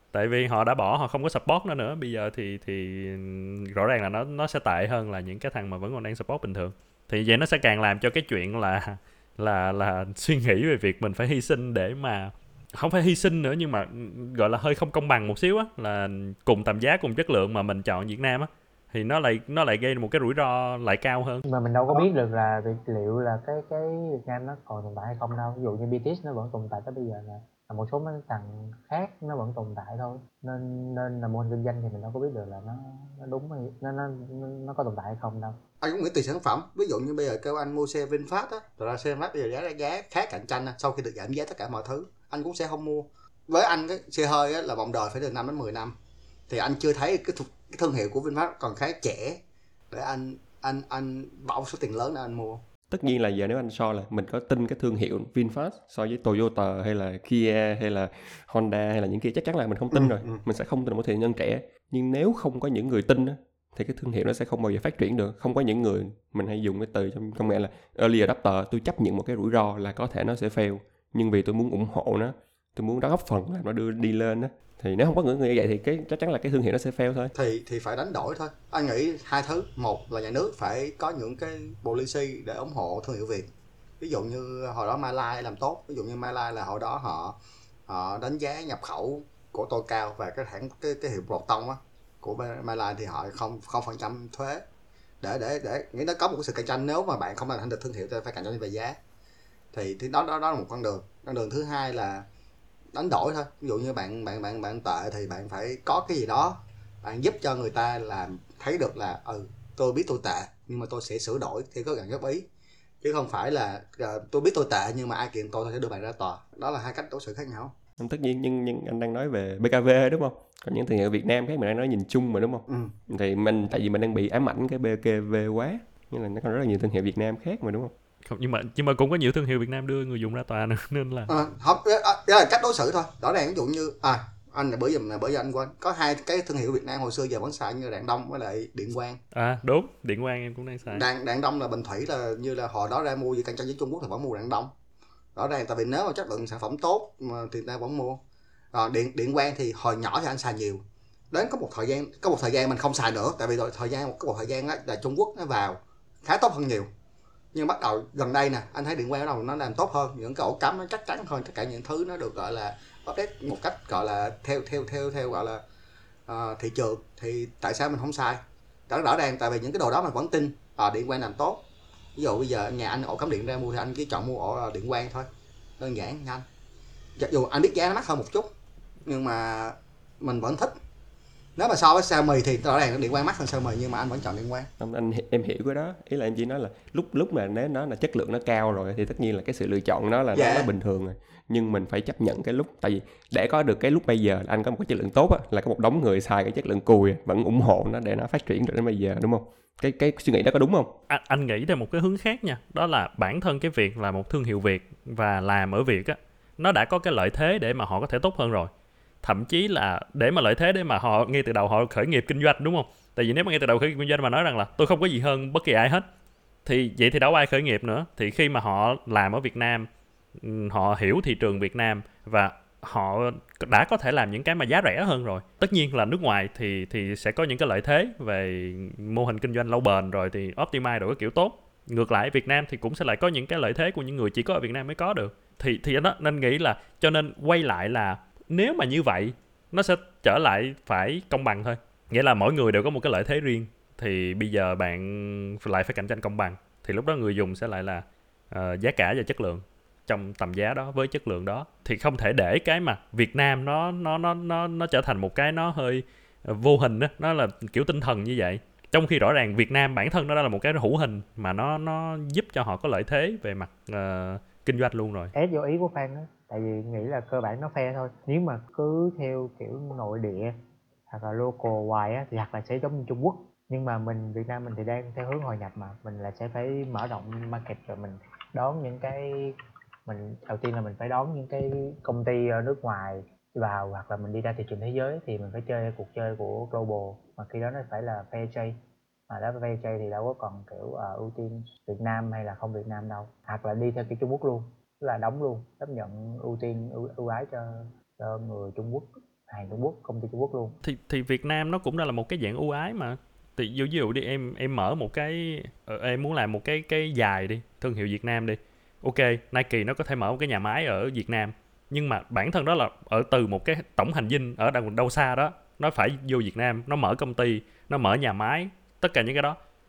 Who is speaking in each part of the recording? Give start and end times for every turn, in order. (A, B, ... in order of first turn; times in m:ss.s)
0:00.1-0:21.4 A
0:21.5-0:35.6 B
0:35.8-0:45.9 C
0:46.5-0:49.4 C
0:49.9-0:52.6 C
0:52.9-1:17.3 D
0:59.9-1:00.4 C
1:17.3-1:23.5 C
1:24.0-1:27.4 C
1:27.9-1:34.6 C
1:35.2-1:39.0 C
1:39.7-1:42.2 C
1:42.9-1:52.4 C
1:53.0-1:57.7 C
1:58.0-2:07.9 D
2:02.7-2:02.9 C
2:08.3-2:11.3 A
2:11.3-2:19.2 C
2:19.3-2:21.0 A
2:20.9-2:24.7 C
2:25.3-2:28.2 C
2:28.7-2:36.9 C
2:37.5-2:45.6 C
2:46.3-2:51.6 C
2:52.2-2:55.3 C
2:55.8-2:56.4 C
2:57.2-2:58.5 C
2:59.0-3:00.7 C
3:01.6-3:04.7 C
3:04.8-3:20.9 D
3:10.3-3:10.7 C
3:21.1-3:28.7 A
3:29.2-3:36.0 A
3:36.6-4:25.3 A
4:25.3-4:30.5 B
4:31.1-4:48.8 B
4:49.3-5:00.8 B
5:00.8-5:19.6 A